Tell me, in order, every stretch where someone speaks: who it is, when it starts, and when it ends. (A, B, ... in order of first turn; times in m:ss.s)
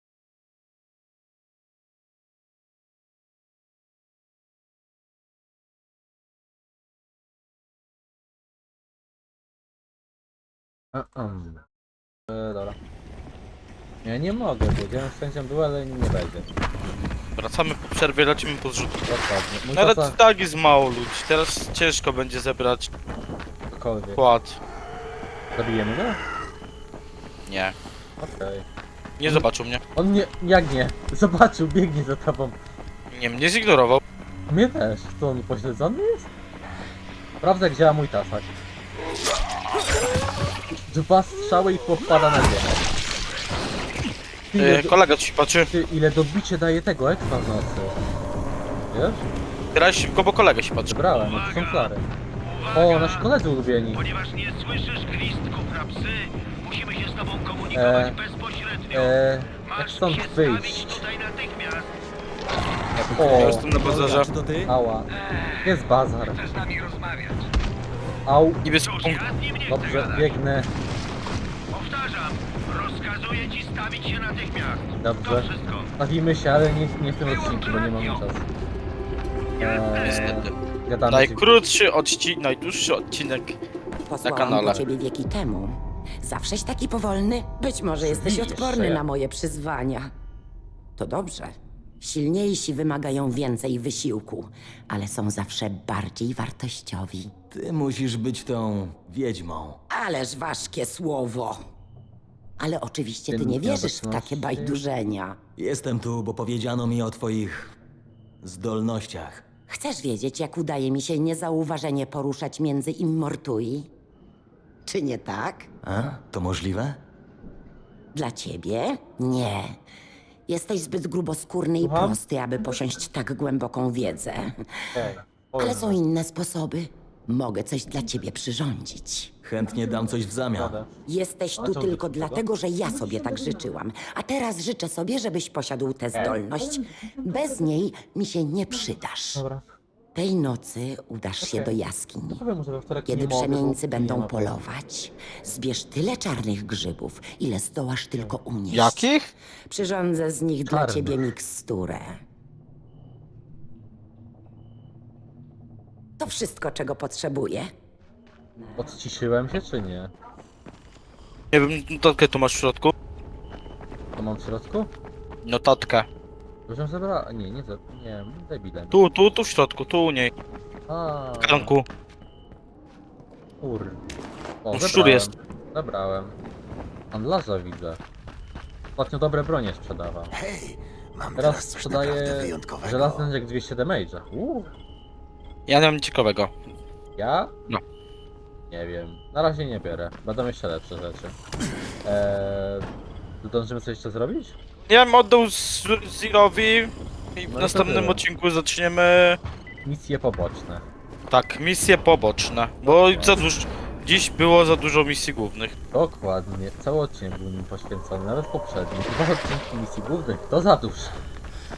0:10.9-0:11.6 A
0:12.3-0:12.8 A
0:14.0-0:16.5 A
0:17.4-0:19.1 B
0:19.1-0:20.2 A
0:19.8-0:22.9 B
0:23.7-0:24.2 A
0:24.2-0:24.6 B
0:25.5-0:26.2 A
0:27.5-0:27.7 B
0:28.2-0:28.6 A
0:29.2-0:29.8 B
0:29.2-0:32.6 A
0:33.1-0:34.0 B
0:34.5-0:36.3 A
0:37.4-0:38.5 A
0:40.9-0:42.9 A
0:44.5-0:44.9 A
0:44.6-0:45.7 B
0:45.7-0:48.0 A
0:48.9-0:49.2 A
0:49.7-0:51.0 B
0:50.9-0:52.0 A
0:51.1-0:51.9 C
0:52.5-0:53.3 C
0:52.7-0:54.0 A
0:53.9-1:02.0 C
0:57.7-0:58.2 A
0:58.9-1:01.0 A
1:03.0-1:04.3 B
1:03.0-1:04.7 D
1:03.2-1:05.1 A
1:05.2-1:05.7 C
1:05.6-1:06.4 A
1:06.3-1:07.5 C
1:08.2-1:08.6 A
1:08.6-1:09.2 B
1:08.8-1:10.4 C
1:09.7-1:10.7 A
1:11.7-1:15.9 C
1:15.0-1:18.4 A
1:17.2-1:18.2 C
1:19.6-1:21.4 A
1:20.0-1:20.5 B
1:21.1-1:23.6 B
1:24.0-1:30.1 E
1:24.2-1:24.8 B
1:28.0-1:29.0 A
1:31.0-1:37.3 E
1:37.5-1:39.8 D
1:39.9-1:41.6 E
1:42.6-1:45.4 E
1:43.3-1:44.8 A
1:45.6-1:47.7 D
1:48.4-1:49.5 D
1:49.7-1:53.9 E
1:54.8-1:55.7 E
1:55.8-1:57.0 D
1:58.1-1:59.8 E
2:00.5-2:04.5 E
2:01.8-2:02.2 A
2:04.9-2:06.0 A
2:05.6-2:09.3 E
2:09.4-2:10.8 D
2:10.5-2:10.9 A
2:11.1-2:19.4 E
2:11.6-2:12.4 A
2:16.1-2:16.4 A
2:19.3-2:19.6 A
2:20.1-2:22.4 E
2:21.4-2:21.7 A
2:22.3-2:24.6 A
2:23.0-2:29.1 E
2:28.7-2:29.3 B
2:29.7-2:32.2 E
2:30.6-2:31.3 A
2:36.2-2:37.7 E
2:38.8-2:40.1 A
2:41.5-2:42.9 B
2:44.2-2:44.9 A
2:45.4-2:46.1 B
2:46.7-2:49.0 A
2:48.9-2:50.3 B
2:50.9-2:51.8 A
2:51.4-2:51.8 B
2:53.6-2:54.0 A
2:54.6-2:56.4 A
2:54.7-2:55.3 B
2:57.1-2:58.0 A
2:59.0-3:00.3 A
3:00.3-3:03.3 F
3:01.4-3:04.7 A
3:05.7-3:06.5 B
3:07.2-3:07.5 A
3:08.7-3:11.3 A
3:12.0-3:12.8 A
3:13.4-3:14.5 A
3:14.9-3:19.4 B
3:17.5-3:18.2 A
3:19.8-3:20.8 A
3:21.3-3:25.7 B
3:22.8-3:23.4 A
3:25.9-3:31.2 A